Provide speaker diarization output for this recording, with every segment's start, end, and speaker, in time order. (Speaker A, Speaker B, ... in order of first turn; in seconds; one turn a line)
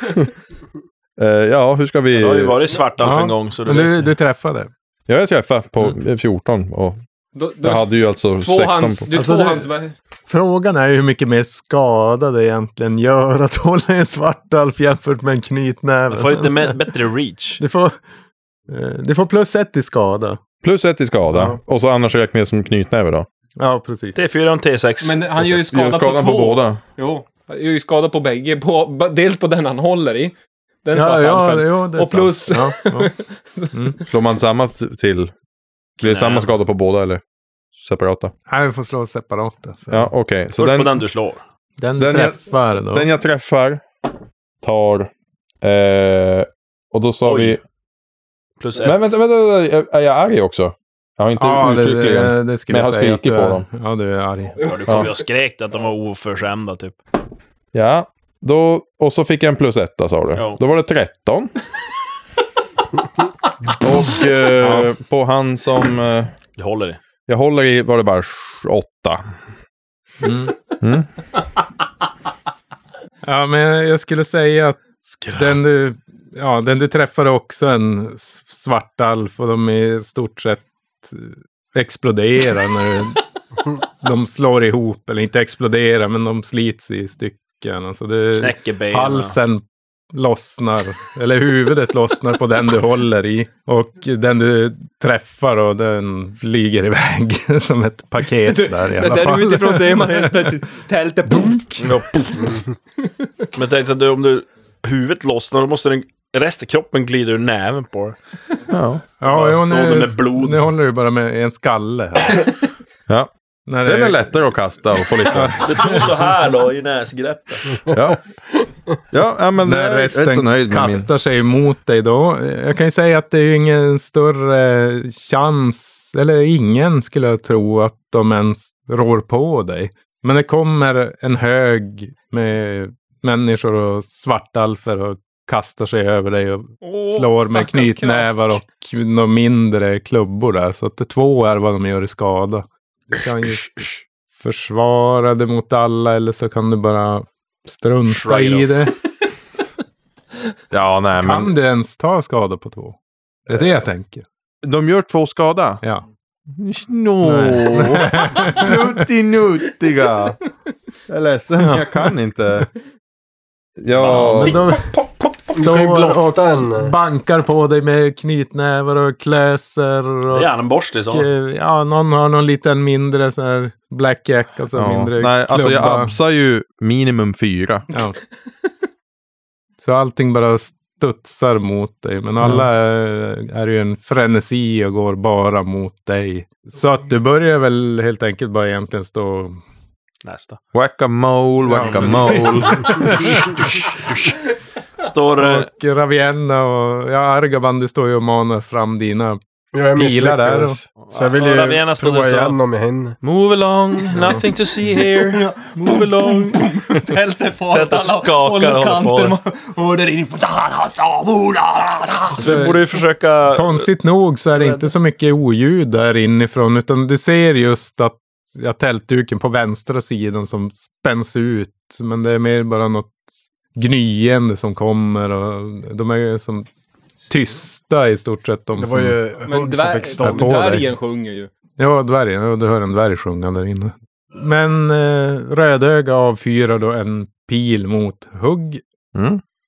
Speaker A: 1.2-2.6
Speaker B: 2.1-4.1
Speaker C: 3.0-4.7
Speaker A: 5.1-7.0
Speaker D: 7.3-9.9
Speaker A: 7.6-9.1
Speaker C: 9.1-9.7
Speaker C: 10.2-16.8
Speaker B: 16.1-17.6
Speaker C: 17.6-17.9
Speaker C: 18.7-20.4
Speaker A: 20.6-23.3
Speaker C: 21.3-21.6
Speaker C: 23.6-24.2
Speaker B: 24.1-25.2
Speaker D: 25.0-30.3
Speaker A: 25.4-26.8
Speaker D: 30.8-33.7
Speaker C: 30.9-33.1
Speaker A: 34.0-35.3
Speaker A: 36.0-37.2
Speaker B: 36.0-36.5
Speaker A: 37.7-38.3
Speaker C: 38.5-40.1
Speaker A: 39.9-41.0
Speaker B: 40.5-41.4
Speaker C: 41.8-43.1
Speaker A: 42.0-43.8
Speaker A: 44.6-45.1
Speaker A: 45.6-47.6
Speaker B: 47.2-47.6
Speaker B: 48.6-49.2
Speaker A: 48.8-53.7
Speaker C: 51.4-54.6
Speaker B: 54.6-57.0
Speaker A: 57.7-61.5
Speaker A: 63.7-66.3
Speaker C: 64.6-64.9
Speaker B: 66.6-67.0
Speaker A: 67.3-69.2
Speaker C: 70.2-70.5
Speaker A: 70.8-71.1
Speaker C: 73.2-83.2
Speaker B: 75.2-75.6
Speaker C: 84.0-100.5
Speaker B: 88.4-89.4
Speaker D: 98.4-102.0
Speaker C: 101.3-101.6
Speaker B: 101.8-102.5
Speaker B: 103.5-108.2
Speaker A: 108.7-109.0
Speaker C: 109.2-112.5
Speaker B: 109.2-110.7
Speaker C: 113.7-114.2
Speaker A: 113.8-115.6
Speaker C: 115.2-116.1
Speaker B: 115.6-117.8
Speaker A: 117.9-118.2
Speaker A: 119.1-121.1
Speaker C: 119.6-148.9
Speaker D: 136.8-138.6
Speaker B: 148.0-148.8
Speaker A: 150.7-151.5
Speaker C: 151.2-154.2
Speaker A: 154.6-155.8
Speaker A: 156.5-160.4
Speaker C: 157.2-158.8
Speaker A: 161.1-162.7
Speaker A: 163.8-164.6
Speaker B: 164.0-165.0
Speaker C: 164.0-164.9
Speaker E: 165.5-166.9
Speaker C: 165.5-170.5
Speaker B: 170.3-171.3
Speaker C: 171.1-176.1
Speaker A: 174.7-177.9
Speaker C: 177.9-178.2
Speaker C: 179.8-189.6
Speaker A: 182.4-182.7
Speaker B: 190.2-190.6
Speaker A: 190.7-193.2
Speaker C: 191.6-193.6
Speaker B: 191.8-194.3
Speaker B: 195.0-195.7
Speaker C: 195.4-199.4
Speaker E: 199.7-203.2
Speaker C: 199.9-200.8
Speaker B: 201.1-202.6
Speaker B: 203.2-207.1
Speaker D: 205.0-212.8
Speaker B: 207.7-209.4
Speaker B: 212.3-213.9
Speaker C: 212.4-212.7
Speaker C: 213.5-223.1
Speaker C: 223.7-226.7
Speaker C: 227.3-229.2
Speaker E: 228.8-230.9
Speaker D: 229.4-231.5
Speaker C: 230.2-230.9
Speaker C: 231.8-238.8
Speaker A: 239.1-239.4